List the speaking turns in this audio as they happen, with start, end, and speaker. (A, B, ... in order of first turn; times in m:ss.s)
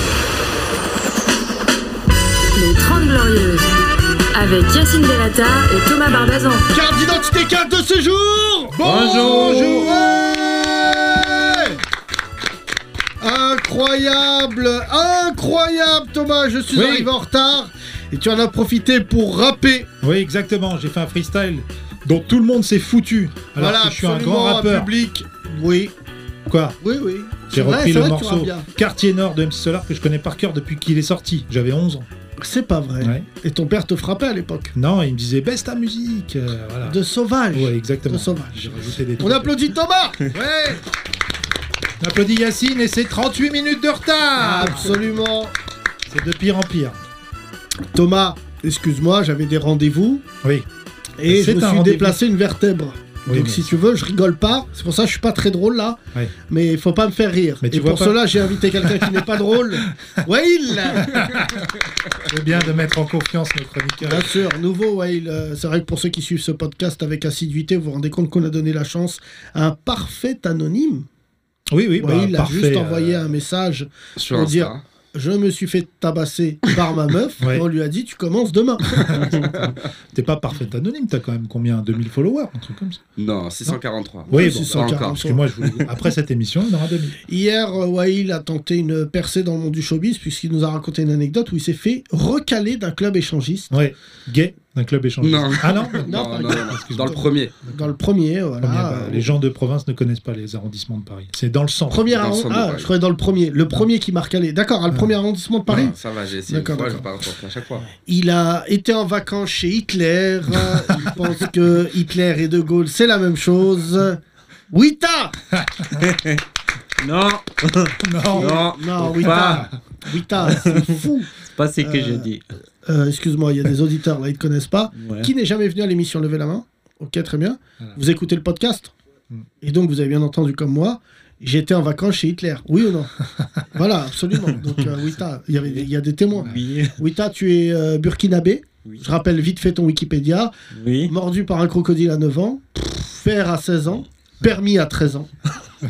0:02.5-0:03.7 A
0:04.3-0:06.7 A
0:06.7-0:11.8 B
0:08.7-0:10.2 C
0:08.8-0:09.9 D
0:13.2-0:19.9 B
0:16.7-0:17.1 C
0:20.0-0:24.9 C
0:23.6-0:25.9 B
0:26.5-0:26.8 C
0:26.8-0:28.7 B
0:27.5-0:32.1 C
0:32.4-0:34.7 B
0:33.0-0:33.3 C
0:34.8-0:37.0 C
0:36.8-0:40.2 B
0:37.5-0:39.6 C
0:40.3-0:40.8 C
0:42.0-0:45.0 C
0:44.4-0:45.5 B
0:46.1-0:47.0 C
0:47.9-0:50.2 B
0:51.2-1:01.6 B
0:51.3-0:52.2 C
0:53.3-0:53.8 C
0:57.6-0:59.3 C
1:00.9-1:04.4 C
1:04.0-1:11.1 B
1:11.7-1:13.3 C
1:12.0-1:19.5 B
1:14.2-1:14.8 E
1:17.4-1:17.7 C
1:19.0-1:23.0 C
1:23.2-1:25.2 E
1:24.3-1:25.8 B
1:24.3-1:27.2 C
1:27.2-1:33.7 B
1:33.7-1:37.2 C
1:35.2-1:37.5 E
1:36.0-1:39.3 B
1:38.6-1:42.3 C
1:41.9-1:46.0 B
1:42.1-1:42.9 E
1:45.7-1:47.8 E
1:46.5-1:47.0 B
1:48.0-1:55.4 B
1:50.7-1:51.0 C
1:55.5-1:56.0 C
1:56.0-1:56.4 D
1:57.0-1:59.7 D
1:58.0-1:58.6 C
1:58.4-2:01.3 B
1:59.2-1:59.7 C
2:00.4-2:02.4 D
2:01.8-2:02.3 B
2:02.8-2:08.9 B
2:05.0-2:05.3 D
2:09.6-2:20.5 B
2:16.4-2:17.0 D
2:20.7-2:21.1 D
2:21.1-2:25.3 B